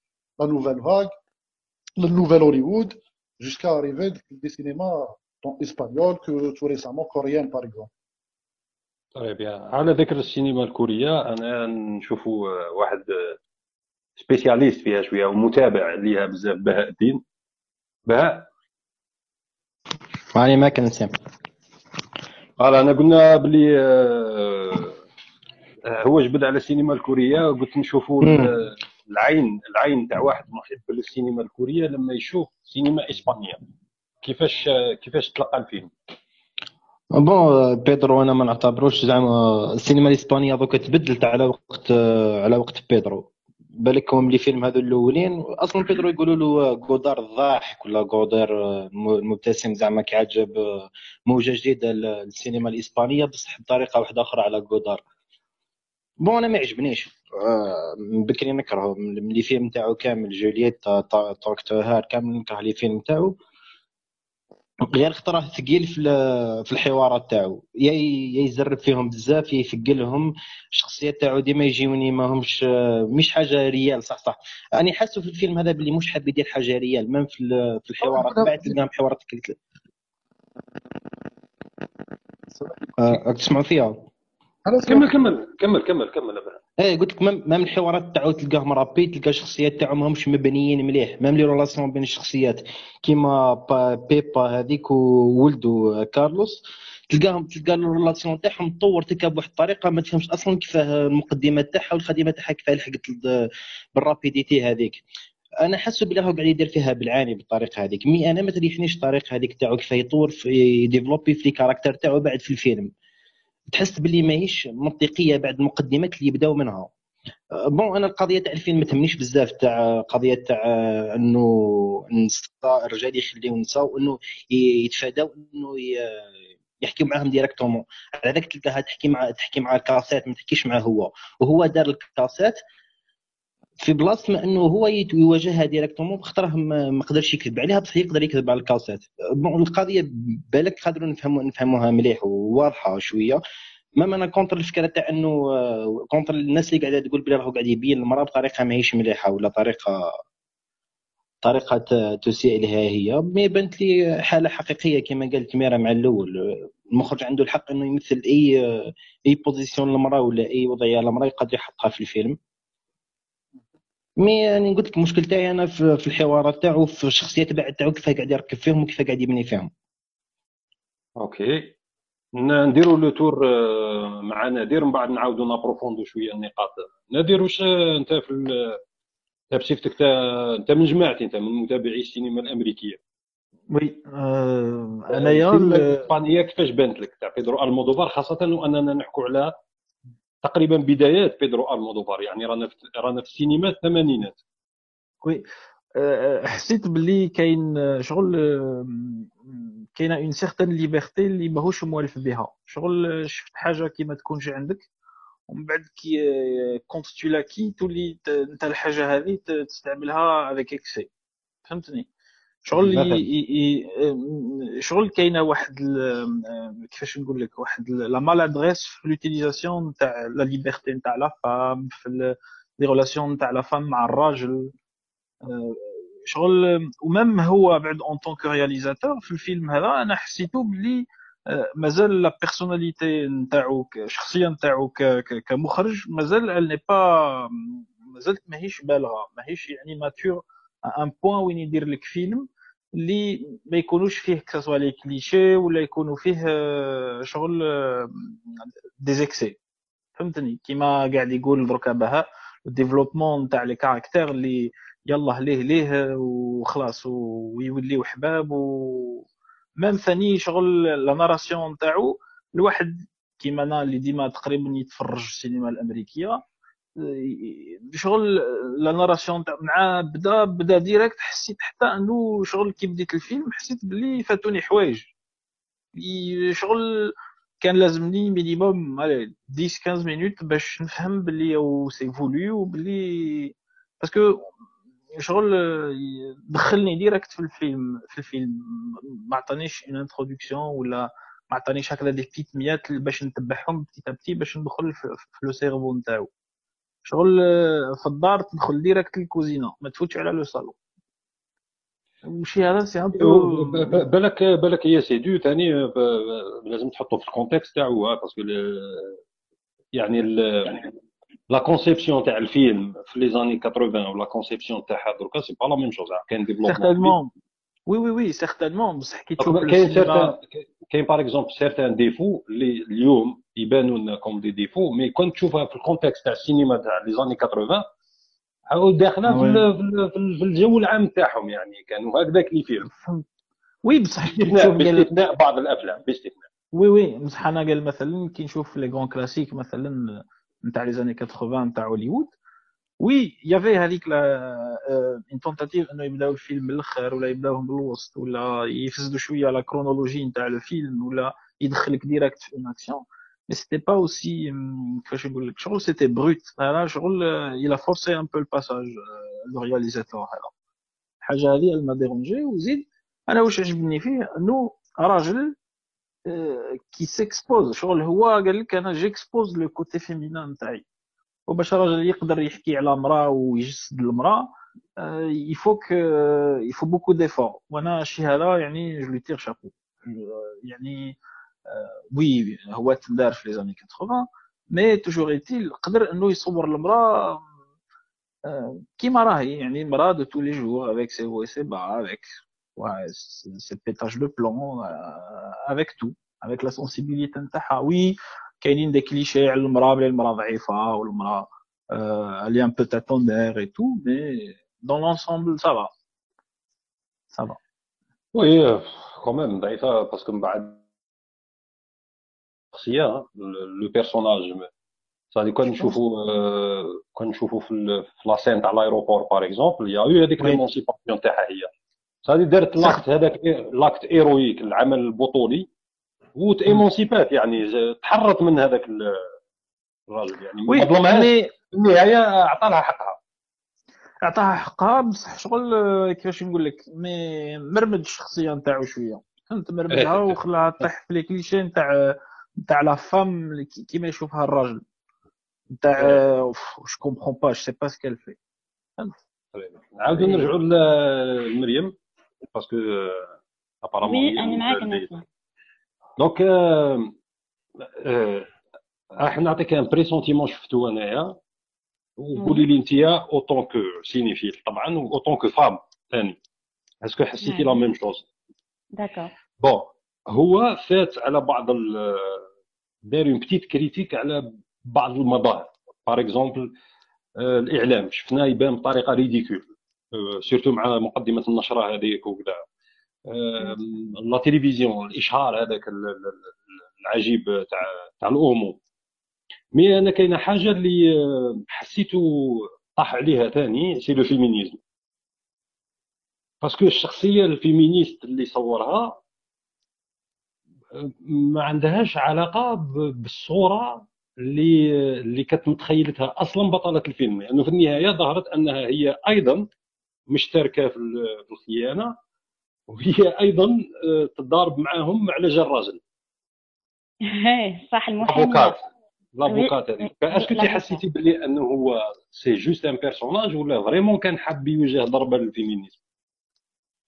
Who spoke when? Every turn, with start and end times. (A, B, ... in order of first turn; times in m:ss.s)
0:00.4-0:01.1 A
0:02.0-0:07.9 A
0:09.2-0:13.4 B
0:14.2-0:17.2 B
0:18.1-0:18.5 B
0:20.3-0:21.1 C
0:22.6-0:25.0 B
0:25.8-0:33.6 B
0:28.2-0:28.5 C
0:34.2-0:35.9 B
0:37.1-0:55.0 C
0:56.2-1:03.3 C
1:04.8-1:19.6 C
1:18.0-1:18.8 A
1:22.5-1:22.9 A
1:23.0-1:24.0 C
1:24.6-1:25.1 A
1:24.8-1:26.6 B
1:26.8-1:45.0 C
1:45.6-1:52.9 C
1:53.7-1:56.9 C
1:57.7-2:06.3 C
2:06.8-2:12.6 C
2:13.8-2:23.4 C
2:24.0-2:30.1 C
2:31.4-2:42.4 C
2:44.2-2:49.7 C
2:51.2-2:51.7 B
2:52.4-2:58.8 B
2:59.5-3:03.0 B
3:03.7-3:06.1 D
3:05.1-3:09.5 B
3:10.4-3:14.4 B
3:16.0-3:24.9 D
3:25.5-3:31.1 D
3:31.6-3:32.1 D
3:32.6-3:44.7 D
3:32.7-3:33.2 C
3:45.4-4:09.6 D
4:10.2-4:19.2 D
4:19.8-4:26.4 D
4:27.0-4:35.1 D
4:35.9-4:44.5 D
4:45.1-4:56.3 D
4:57.0-5:00.8 D
5:02.2-5:04.0 D
5:03.2-5:09.2 B
5:09.9-5:10.9 B
5:11.5-5:17.2 B
5:16.6-5:17.3 D
5:17.9-5:20.4 D
5:19.4-5:27.8 B
5:28.7-5:32.9 B
5:29.2-5:29.7 D
5:32.9-5:33.2 D
5:33.8-5:35.2 D
5:34.4-5:36.4 B
5:36.7-5:42.3 D
5:43.0-6:00.5 D
6:01.2-6:05.5 D
6:06.3-6:10.8 D
6:11.5-6:27.4 D
6:28.5-6:45.9 D
6:47.3-6:47.6 D
6:48.3-6:50.8 B
6:52.7-6:54.7 B
6:55.3-7:01.7 B
7:02.2-7:05.7 B
7:02.8-7:03.0 D
7:06.4-7:09.2 B
7:10.1-7:13.2 B
7:10.7-7:11.5 D
7:14.2-7:24.8 D
7:19.9-7:20.4 B
7:25.7-7:28.4 D
7:29.5-7:32.0 B
7:30.1-7:30.5 D
7:32.5-7:33.3 B
7:33.8-7:35.1 B
7:34.0-7:35.2 E
7:36.2-7:37.1 B
7:38.0-7:38.5 B
7:39.2-7:41.4 B
7:42.2-7:46.4 B
7:42.4-7:42.6 E
7:47.0-7:48.3 B
7:47.4-7:47.8 E
7:49.0-7:49.3 E
7:49.6-7:52.4 B
7:53.0-7:56.7 B
7:57.4-8:02.6 B
8:03.3-8:08.8 B
8:09.7-8:14.8 B
8:16.6-8:19.2 B
8:20.9-8:29.7 B
8:30.3-8:32.1 B
8:32.9-8:36.0 B
8:37.3-8:38.8 E
8:38.2-8:38.8 B
8:39.3-8:46.0 B
8:39.4-8:41.0 E